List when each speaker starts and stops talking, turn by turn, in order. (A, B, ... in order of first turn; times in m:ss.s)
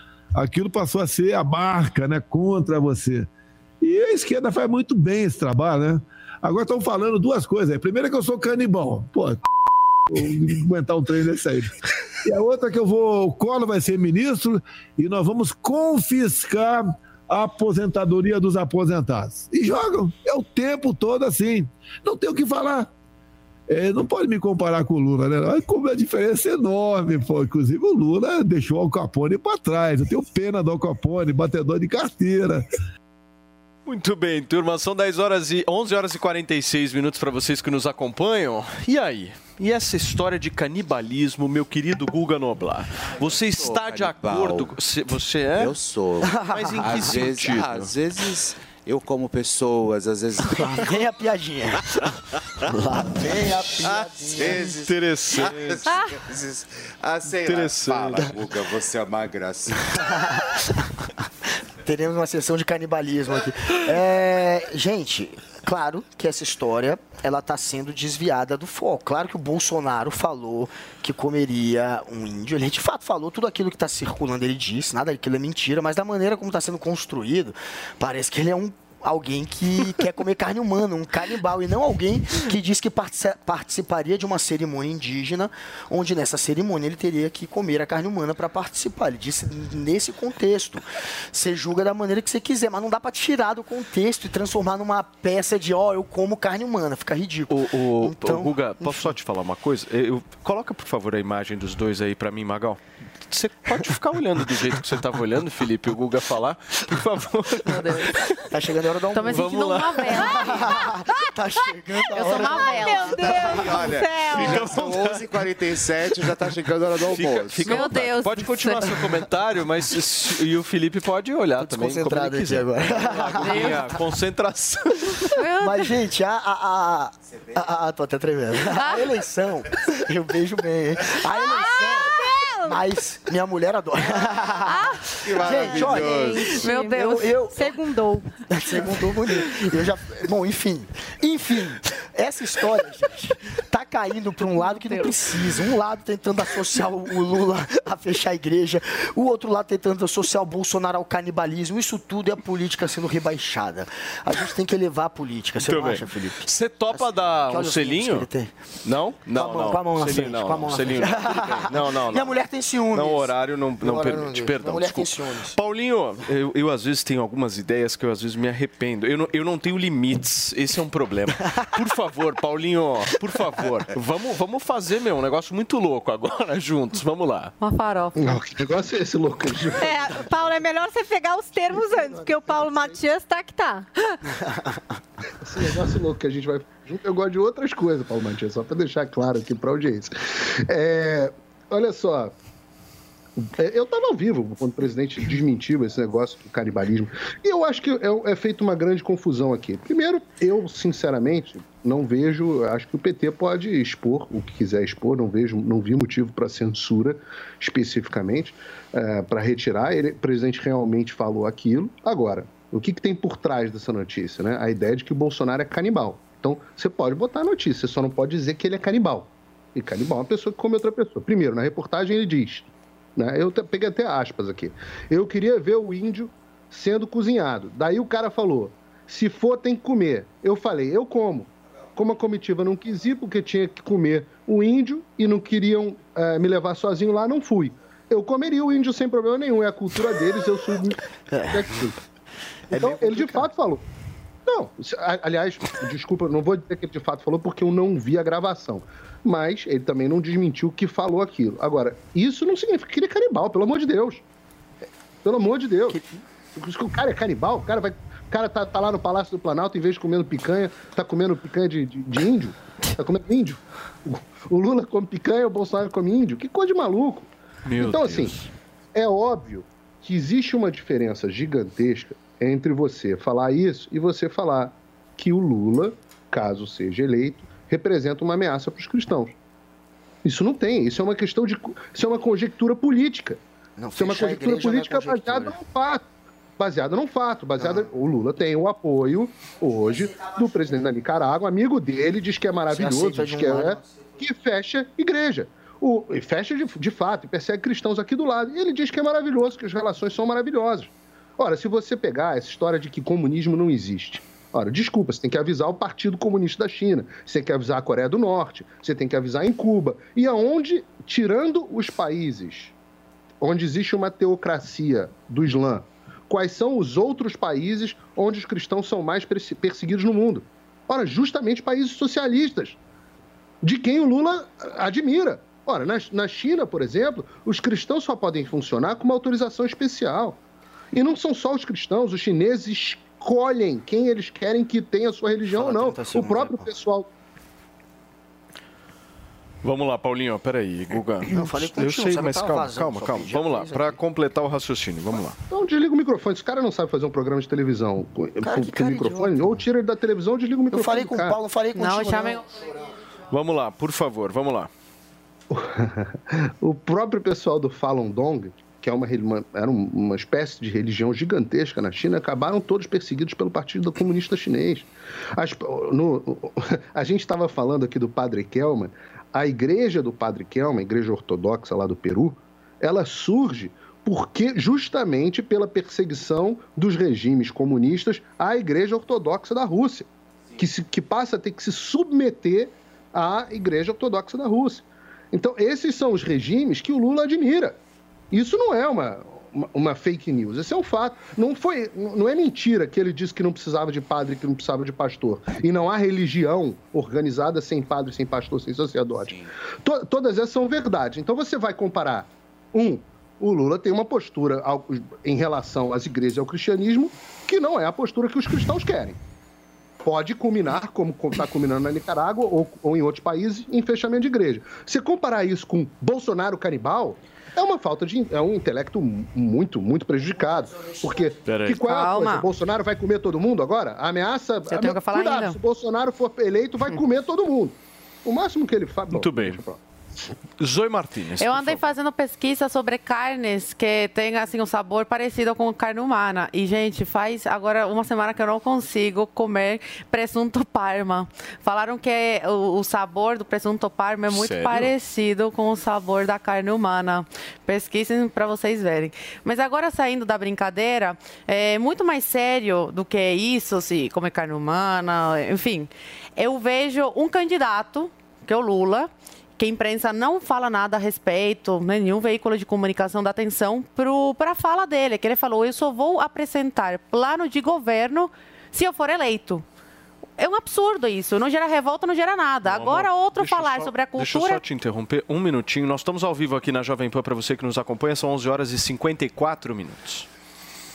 0:00.3-0:03.3 A
0:03.8-0:09.4 A
0:10.1-0:11.7 A
0:12.2-0:22.9 A
0:23.7-0:32.6 A
0:33.8-0:45.7 B
0:43.3-0:44.7 C
0:45.5-0:51.0 C
0:46.2-0:47.0 D
0:46.5-0:47.9 B
0:50.5-0:52.1 D
0:52.6-0:54.9 D
0:53.8-1:00.0 C
0:54.4-0:55.9 B
0:57.3-0:58.3 B
1:00.0-1:00.7 D
1:01.8-1:39.2 D
1:37.5-1:48.3 B
1:47.7-1:48.1 E
1:48.4-1:49.4 D
1:49.1-1:50.9 E
1:49.3-1:50.0 B
1:50.0-1:53.6 D
1:50.1-1:50.5 F
1:52.0-1:54.7 F
1:52.1-1:53.4 E
1:53.2-1:58.0 C
1:53.5-1:55.2 B
1:57.1-2:05.2 B
1:57.7-1:59.0 E
2:01.6-2:03.9 D
2:03.4-2:04.0 E
2:05.3-2:05.9 E
2:05.6-2:17.7 D
2:08.7-2:09.0 E
2:11.3-2:12.8 F
2:15.2-2:16.6 C
2:15.4-2:18.3 F
2:15.6-2:15.9 E
2:16.5-2:17.4 E
2:18.5-2:38.5 D
2:24.8-2:25.0 F
2:35.6-2:38.3 B
2:38.8-2:42.4 B
2:39.3-2:45.6 D
2:42.9-2:57.5 B
2:57.6-2:58.4 E
2:58.2-3:00.6 G
2:59.8-3:04.2 F
3:01.7-3:03.0 G
3:04.4-3:04.8 D
3:05.4-3:10.1 G
3:10.7-3:12.3 G
3:13.4-4:02.0 G
4:01.3-4:01.9 D
4:02.7-4:03.5 D
4:02.7-4:03.8 G
4:04.4-4:14.2 G
4:15.2-4:16.0 G
4:15.9-4:16.2 D
4:16.5-4:28.3 G
4:27.6-4:28.5 B
4:28.9-4:39.3 G
4:40.2-4:43.4 G
4:43.8-4:45.6 D
4:44.0-4:46.0 G
4:46.6-5:12.7 G
4:47.6-4:47.9 D
4:49.8-4:50.8 D
4:52.7-4:54.2 D
5:13.4-5:22.8 G
5:23.6-5:30.4 G
5:30.9-5:37.1 G
5:35.5-5:36.6 D
5:39.6-5:45.4 B
5:41.2-5:44.0 D
5:45.5-5:51.4 G
5:48.4-5:49.6 D
5:50.7-5:52.5 D
5:51.7-5:52.4 E
5:53.3-5:54.7 B
5:55.5-6:27.8 G
6:28.3-6:49.2 G
6:39.2-6:39.5 C
6:50.0-7:09.8 G
7:01.6-7:02.4 E
7:04.7-7:05.6 E
7:09.1-7:09.6 B
7:10.6-7:11.9 B
7:11.4-7:49.6 E
7:24.3-7:24.9 B
7:50.4-7:54.6 E
7:52.6-8:00.3 B